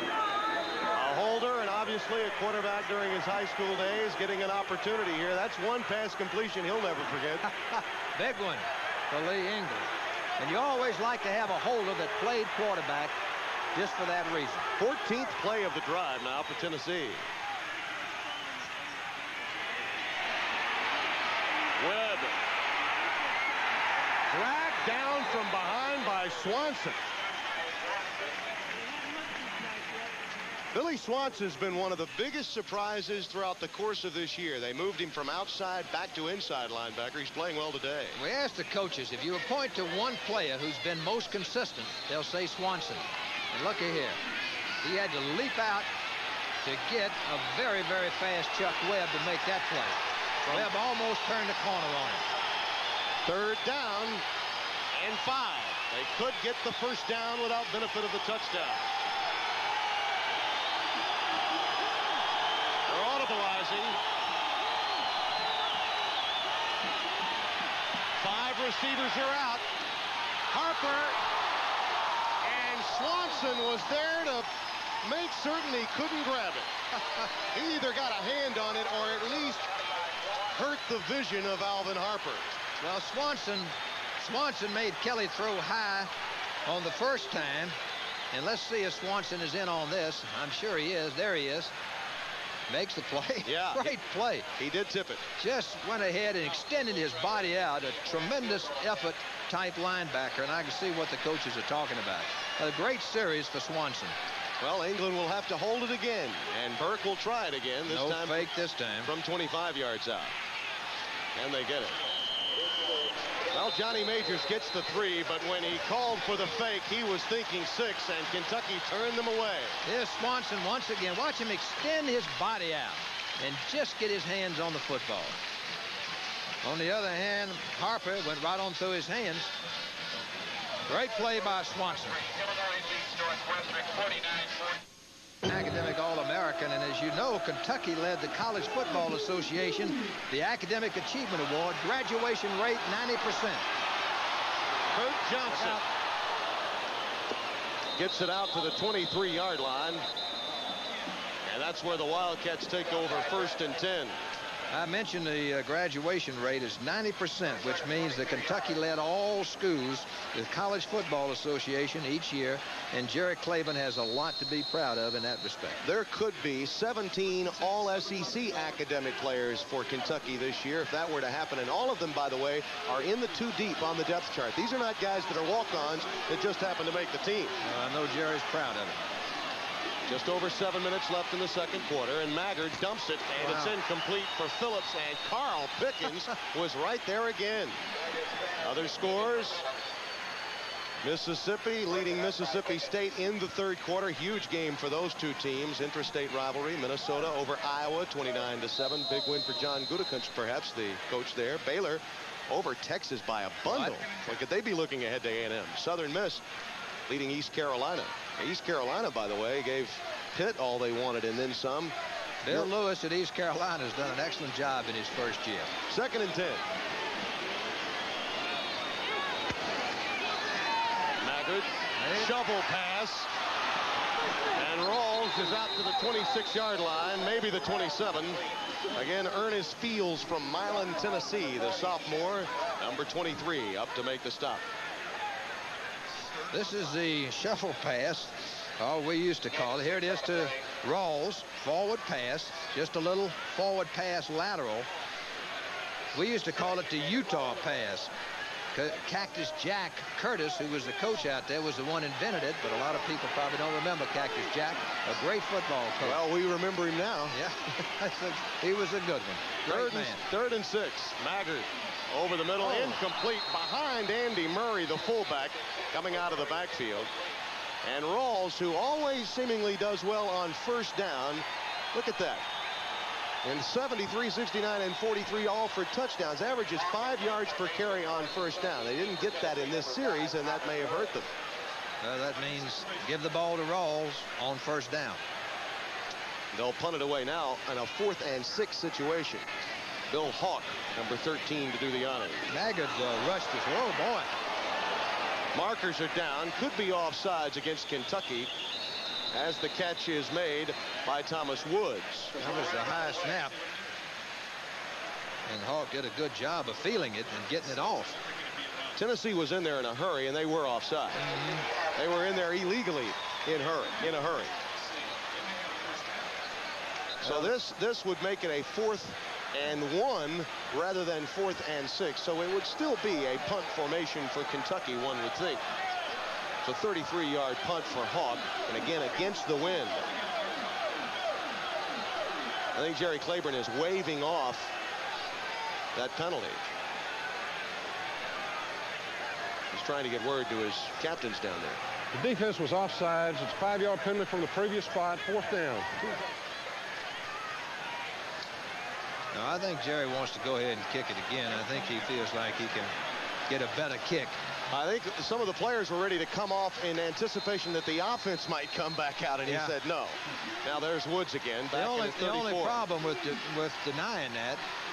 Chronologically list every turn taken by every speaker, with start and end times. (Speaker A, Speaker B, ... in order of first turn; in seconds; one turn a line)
Speaker A: 0.9-7.5
Speaker B: 7.7-13.1
Speaker B: 13.8-14.7
Speaker A: 14.8-17.2
Speaker A: 21.8-22.4
Speaker A: 24.3-27.0
Speaker A: 30.7-38.2
Speaker B: 38.1-44.2
Speaker B: 44.8-45.9
Speaker B: 46.6-52.2
Speaker A: 53.2-54.2
Speaker A: 54.9-58.9
Speaker A: 62.9-64.0
Speaker A: 68.2-69.6
Speaker A: 70.5-71.2
Speaker A: 72.4-74.5
Speaker A: 75.0-76.7
Speaker A: 77.3-79.7
Speaker A: 80.5-82.5
Speaker B: 82.8-86.1
Speaker B: 86.7-87.8
Speaker B: 88.3-91.7
Speaker B: 92.7-94.5
Speaker A: 93.5-93.9
Speaker A: 94.6-95.3
Speaker B: 95.4-104.1
Speaker A: 104.6-108.5
Speaker B: 107.9-109.1
Speaker A: 109.0-110.3
Speaker A: 111.3-112.0
Speaker A: 113.5-119.8
Speaker B: 119.8-125.4
Speaker B: 126.6-129.6
Speaker B: 130.9-132.2
Speaker B: 135.4-143.6
Speaker A: 144.9-145.9
Speaker B: 145.5-145.8
Speaker A: 148.0-150.0
Speaker A: 151.5-154.2
Speaker B: 154.7-165.8
Speaker A: 165.8-177.6
Speaker B: 177.6-179.0
Speaker A: 180.1-187.8
Speaker B: 183.4-183.7
Speaker A: 188.6-189.6
Speaker A: 191.0-206.4
Speaker B: 203.7-204.0
Speaker A: 207.1-211.9
Speaker B: 212.4-215.7
Speaker A: 215.9-216.6
Speaker A: 221.2-223.3
Speaker B: 222.0-222.3
Speaker A: 224.5-234.6
Speaker B: 236.5-244.9
Speaker B: 246.1-248.1
Speaker B: 248.7-256.2
Speaker A: 256.0-257.4
Speaker B: 257.3-260.2
Speaker A: 259.7-267.1
Speaker B: 262.6-263.0
Speaker A: 267.8-272.5
Speaker A: 273.4-281.3
Speaker B: 282.0-285.2
Speaker A: 286.5-289.4
Speaker A: 290.1-292.4
Speaker B: 292.5-294.3
Speaker A: 295.6-298.5
Speaker A: 299.3-302.4
Speaker B: 302.4-303.6
Speaker B: 305.5-308.2
Speaker A: 309.0-311.3
Speaker B: 311.2-311.7
Speaker A: 311.9-314.5
Speaker B: 317.2-317.5
Speaker A: 317.2-325.6
Speaker A: 326.6-330.0
Speaker A: 332.7-334.7
Speaker A: 335.9-336.6
Speaker A: 339.7-341.8
Speaker C: 342.1-346.2
Speaker B: 349.3-352.9
Speaker B: 353.5-354.4
Speaker A: 354.7-362.8
Speaker B: 359.5-359.8
Speaker B: 361.7-364.6